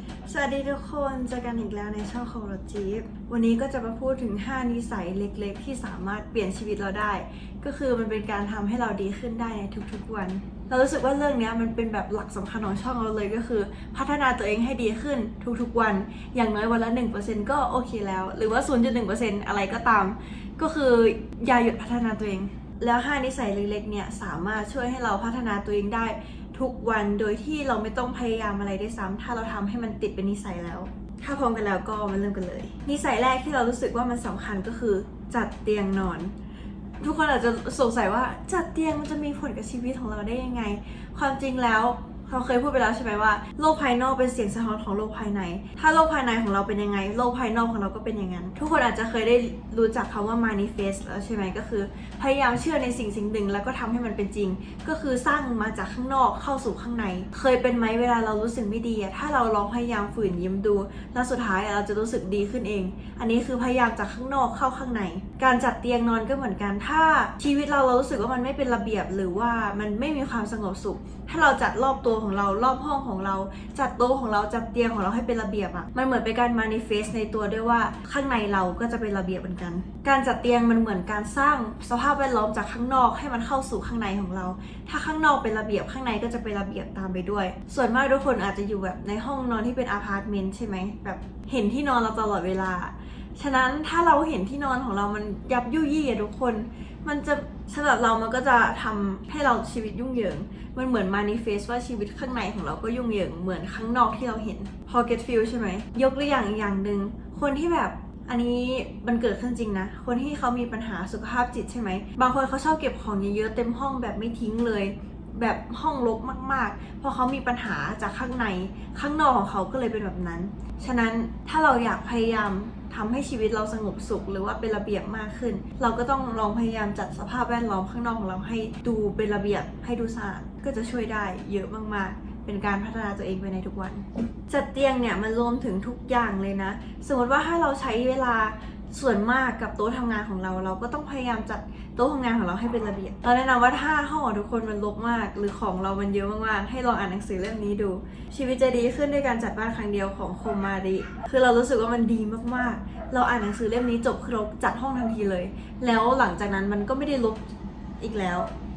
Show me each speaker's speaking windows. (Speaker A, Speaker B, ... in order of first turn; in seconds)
Speaker A: 0.3-36.3, 37.0-157.5, 158.0-158.5